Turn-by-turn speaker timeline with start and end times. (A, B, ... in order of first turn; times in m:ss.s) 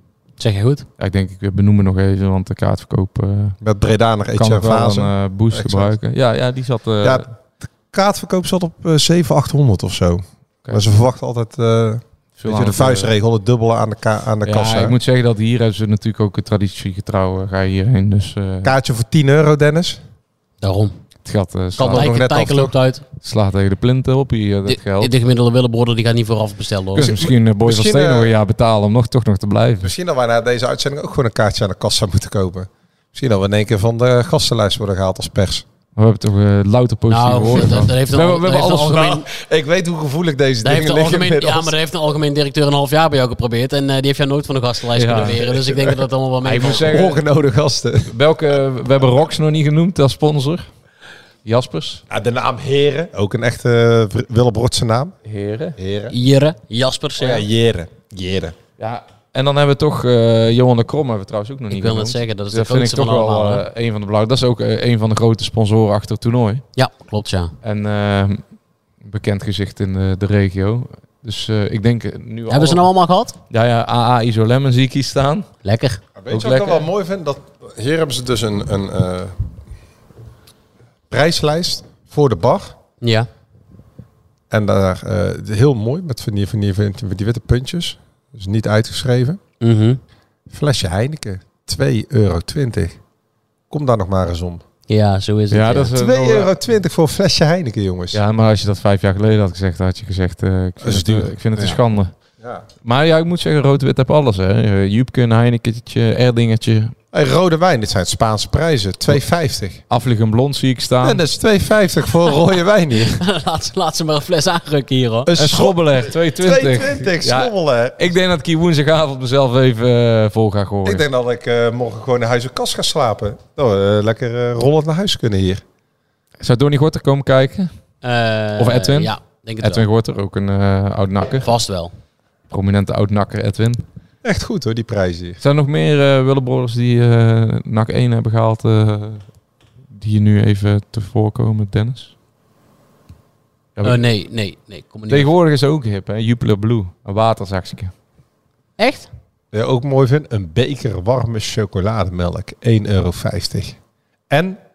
0:00.4-0:00.9 A
0:01.0-0:03.6 B
0:03.6-0:05.9 C
0:04.4-0:07.2 B
0:07.0-0:15.0 C
0:12.4-0:13.1 B
0:14.4-0:18.7 B
0:18.6-0:20.0 C
0:20.6-0:21.0 A
0:21.2-0:22.1 B
0:21.8-0:23.0 A
0:21.8-0:22.7 C
0:23.2-0:25.1 B
0:24.6-0:27.1 A
0:26.9-0:29.9 B
0:27.0-0:28.3 C
0:29.8-0:35.6 C
0:36.0-0:39.2 B
0:37.1-0:39.2 A
0:38.8-0:41.7 C
0:40.6-0:47.0 A
0:44.9-0:45.5 B
0:45.7-0:45.9 C
0:46.4-0:47.2 B
0:46.6-0:48.1 C
0:48.1-0:50.7 B
0:51.4-0:52.0 B
0:52.1-0:55.2 C
0:55.2-0:55.8 B
0:55.8-0:56.1 C
0:56.1-0:57.4 A
0:57.2-0:58.6 C
0:58.8-1:06.6 B
1:01.7-1:03.6 A
1:06.8-1:07.5 A
1:07.6-1:08.4 B
1:09.0-1:12.9 B
1:12.5-1:13.4 A
1:13.5-1:15.5 B
1:15.6-1:16.0 A
1:16.2-1:19.5 C
1:16.3-1:16.8 B
1:21.1-1:22.8 C
1:23.0-1:23.3 A
1:24.5-1:29.4 C
1:29.6-1:30.0 A
1:30.5-1:33.0 C
1:33.7-1:34.6 C
1:34.9-1:35.9 A
1:35.5-1:36.6 B
1:35.9-1:38.2 C
1:38.1-1:42.1 B
1:40.8-1:41.8 C
1:42.8-1:46.9 B
1:47.1-1:49.8 C
1:49.9-1:51.2 B
1:51.0-1:53.2 C
1:53.2-1:55.3 A
1:55.2-1:58.1 C
1:55.3-2:01.0 B
2:00.8-2:05.6 C
2:06.4-2:07.7 B
2:08.0-2:09.8 A
2:08.6-2:11.5 B
2:11.4-2:11.9 A
2:12.5-2:13.8 B
2:14.2-2:15.4 C
2:15.4-2:19.2 B
2:19.9-2:22.1 B
2:23.8-2:24.0 B
2:23.8-2:25.3 A
2:25.1-2:27.9 B
2:28.8-2:29.1 A
2:29.5-2:33.8 C
2:34.3-2:34.6 C